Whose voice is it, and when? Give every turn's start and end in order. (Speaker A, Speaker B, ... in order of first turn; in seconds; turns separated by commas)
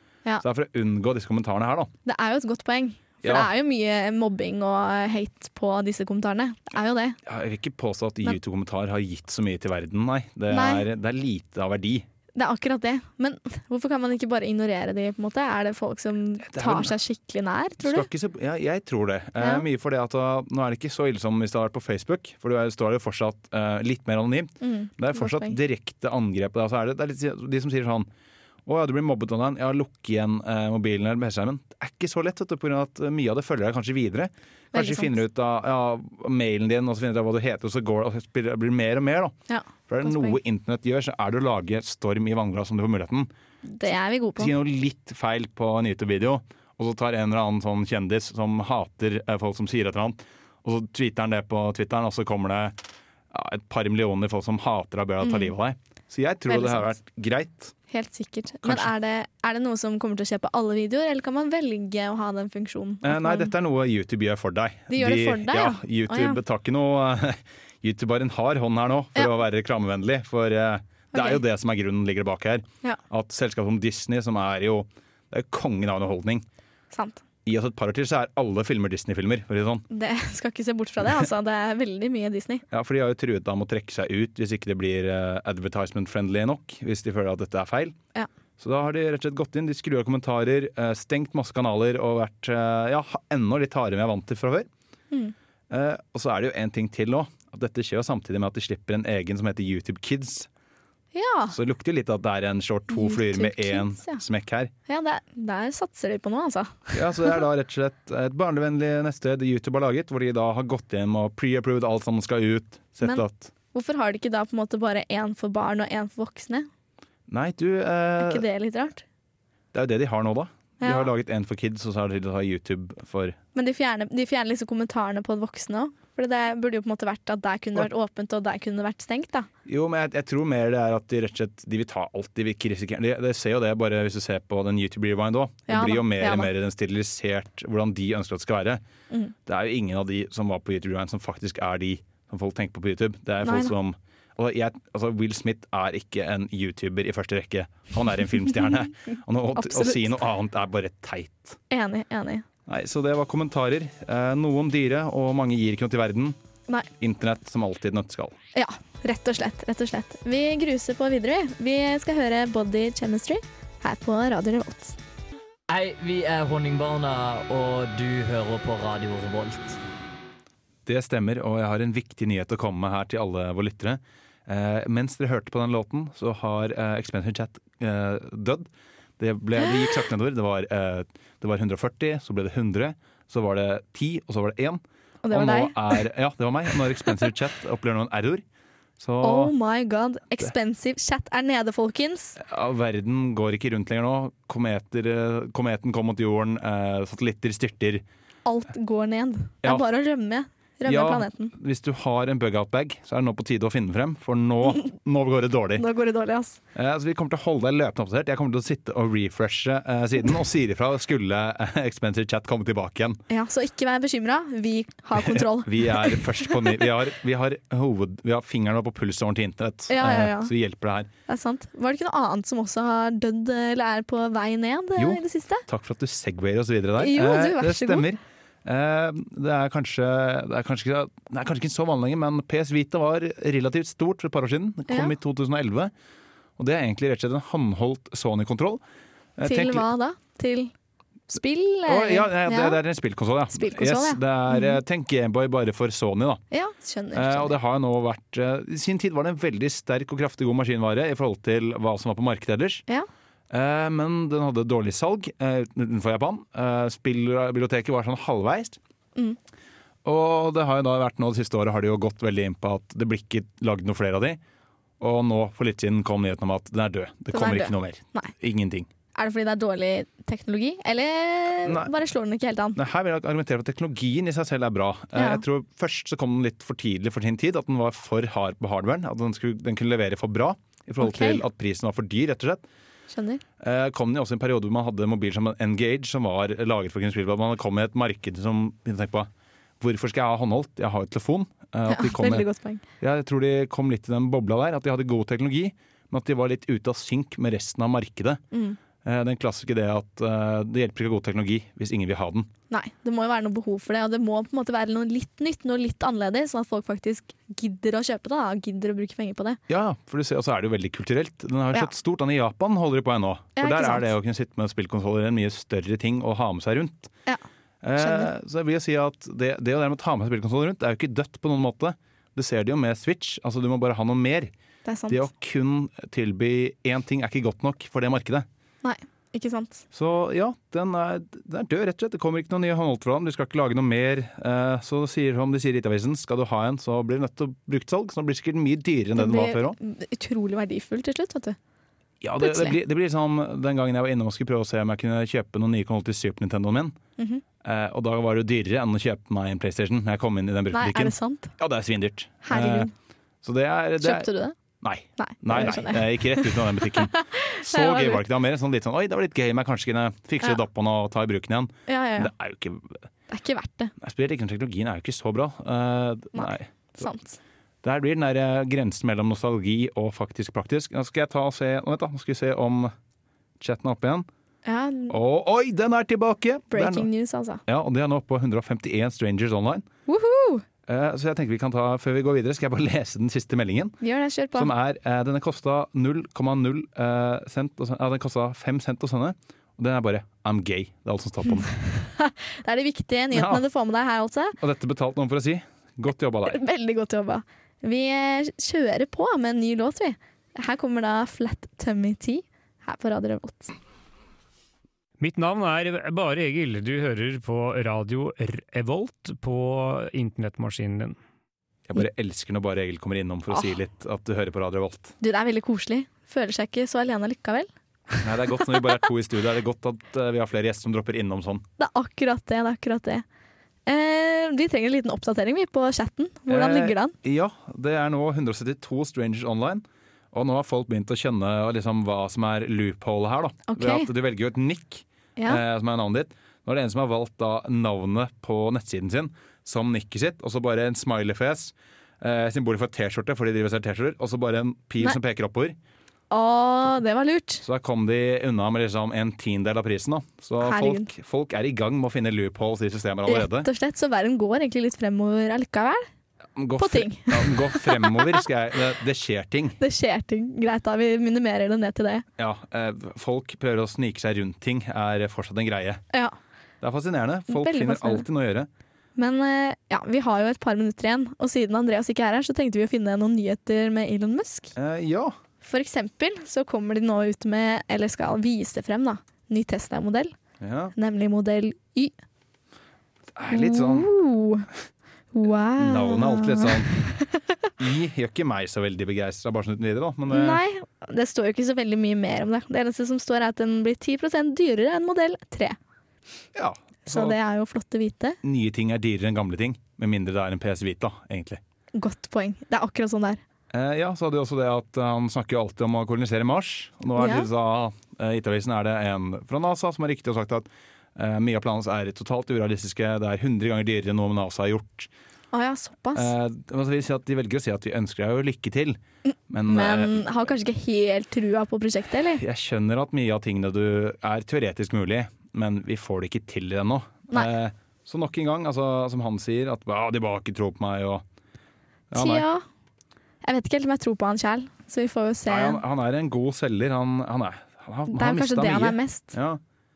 Speaker A: 0.4-1.9, Speaker B: 2.0-7.2, Speaker A: 3.2-3.5, Speaker A: 7.2-12.1, Speaker B: 10.5-10.8, Speaker B: 12.3-18.1, Speaker A: 16.4-16.9, Speaker A: 17.8-28.1, Speaker B: 19.4-19.6, Speaker B: 24.6-25.6, Speaker A: 28.6-39.4, Speaker B: 34.7-35.2, Speaker B: 39.5-40.4, Speaker A: 39.9-43.3, Speaker B: 43.6-44.5, Speaker A: 44.4-52.8, Speaker A: 53.3-57.7, Speaker B: 55.2-55.5, Speaker B: 56.5-56.9, Speaker B: 57.9-63.5, Speaker A: 58.6-58.9, Speaker A: 63.0-76.5, Speaker B: 64.9-66.4, Speaker B: 71.1-71.4, Speaker B: 76.9-77.2, Speaker A: 77.4-79.8, Speaker B: 79.9-82.6, Speaker A: 82.7-88.0, Speaker A: 88.6-94.7, Speaker A: 95.7-100.5, Speaker B: 101.1-101.5, Speaker A: 101.5-104.7, Speaker B: 102.9-104.2, Speaker B: 104.9-107.3, Speaker A: 106.9-113.5, Speaker B: 113.0-116.7, Speaker A: 117.3-118.4, Speaker B: 118.2-119.0, Speaker A: 119.7-123.4, Speaker B: 120.8-121.1, Speaker B: 123.5-129.5, Speaker A: 129.7-138.8, Speaker B: 135.7-136.5, Speaker A: 139.4-151.6, Speaker B: 143.4-143.7, Speaker B: 148.7-150.2, Speaker B: 151.7-152.4, Speaker A: 152.7-156.4, Speaker A: 157.0-158.3, Speaker B: 158.5-165.0, Speaker C: 165.7-169.8, Speaker A: 170.8-188.4, Speaker B: 185.2-186.0, Speaker A: 189.0-189.5, Speaker B: 189.2-192.4, Speaker A: 192.4-198.0, Speaker B: 198.4-201.5, Speaker A: 200.8-205.8, Speaker B: 205.8-206.6, Speaker A: 206.7-213.2, Speaker B: 213.3-216.9, Speaker A: 215.2-221.1, Speaker B: 219.9-220.5, Speaker B: 221.3-225.6, Speaker A: 225.0-235.9, Speaker B: 227.0-228.1, Speaker B: 234.9-235.1, Speaker A: 236.6-238.8, Speaker A: 239.4-239.9, Speaker B: 239.4-240.7, Speaker B: 241.3-242.8, Speaker A: 241.8-246.4, Speaker B: 243.5-244.8, Speaker B: 246.5-247.5, Speaker A: 247.1-252.8, Speaker A: 253.5-258.8, Speaker A: 260.0-264.4, Speaker A: 265.0-268.9, Speaker B: 267.3-268.3, Speaker B: 269.1-272.8, Speaker A: 271.6-271.9, Speaker A: 272.8-282.6, Speaker B: 275.1-275.4, Speaker B: 281.0-281.4, Speaker B: 283.1-283.4, Speaker A: 283.6-289.3, Speaker A: 289.8-292.5, Speaker B: 291.9-292.8, Speaker A: 293.0-298.4, Speaker B: 298.5-298.8, Speaker A: 299.0-302.5, Speaker B: 302.7-309.6, Speaker A: 309.7-317.1, Speaker B: 313.6-314.1, Speaker A: 317.8-324.5, Speaker B: 318.0-318.3, Speaker B: 324.9-325.2, Speaker A: 325.1-328.5, Speaker B: 328.8-329.8, Speaker A: 329.9-339.8, Speaker B: 339.1-341.6, Speaker A: 342.2-346.9, Speaker B: 342.4-342.8, Speaker B: 347.2-347.4, Speaker A: 347.6-352.9, Speaker B: 350.7-351.5, Speaker B: 352.4-352.9, Speaker A: 353.4-354.3, Speaker B: 354.0-354.5, Speaker A: 354.8-363.1, Speaker B: 355.2-358.2, Speaker B: 361.9-362.3, Speaker B: 363.3-363.9, Speaker A: 364.0-367.1, Speaker B: 366.3-367.4, Speaker A: 367.8-372.9, Speaker A: 373.6-374.3, Speaker B: 374.6-375.1, Speaker A: 375.1-377.1, Speaker B: 376.7-377.6, Speaker A: 377.6-379.9, Speaker B: 380.1-380.6, Speaker A: 380.9-384.0, Speaker B: 384.0-384.7, Speaker A: 384.5-391.7, Speaker B: 391.5-394.6, Speaker A: 393.3-393.6, Speaker A: 394.6-396.6, Speaker B: 396.4-403.7, Speaker D: 405.2-411.2, Speaker A: 411.9-415.1, Speaker B: 415.2-418.9, Speaker A: 418.2-421.6, Speaker B: 421.8-423.2, Speaker B: 423.9-427.1, Speaker A: 426.5-445.8, Speaker B: 433.7-434.1, Speaker B: 435.4-435.6, Speaker B: 446.3-447.6, Speaker A: 447.6-453.7, Speaker B: 450.6-451.1, Speaker B: 453.2-456.1, Speaker A: 456.6-459.8, Speaker B: 456.8-458.4, Speaker B: 459.8-462.2, Speaker A: 462.4-466.0, Speaker A: 466.8-468.7, Speaker B: 467.5-468.2, Speaker B: 469.2-474.7, Speaker A: 474.8-475.4, Speaker B: 475.6-480.3, Speaker A: 480.6-480.9, Speaker B: 480.9-482.1, Speaker A: 483.3-484.1, Speaker B: 483.5-484.7, Speaker B: 485.3-487.3, Speaker A: 485.8-486.9, Speaker A: 487.8-490.6, Speaker B: 490.3-495.8, Speaker A: 496.5-497.4, Speaker B: 497.1-498.4, Speaker A: 498.4-501.6, Speaker B: 501.9-503.4, Speaker A: 503.7-515.1, Speaker B: 507.1-507.5, Speaker B: 515.5-516.3, Speaker A: 516.1-520.2, Speaker B: 519.6-522.4, Speaker A: 522.4-531.2, Speaker A: 532.1-532.5, Speaker B: 532.1-532.6, Speaker B: 533.4-535.8, Speaker A: 535.5-539.6, Speaker B: 538.1-539.4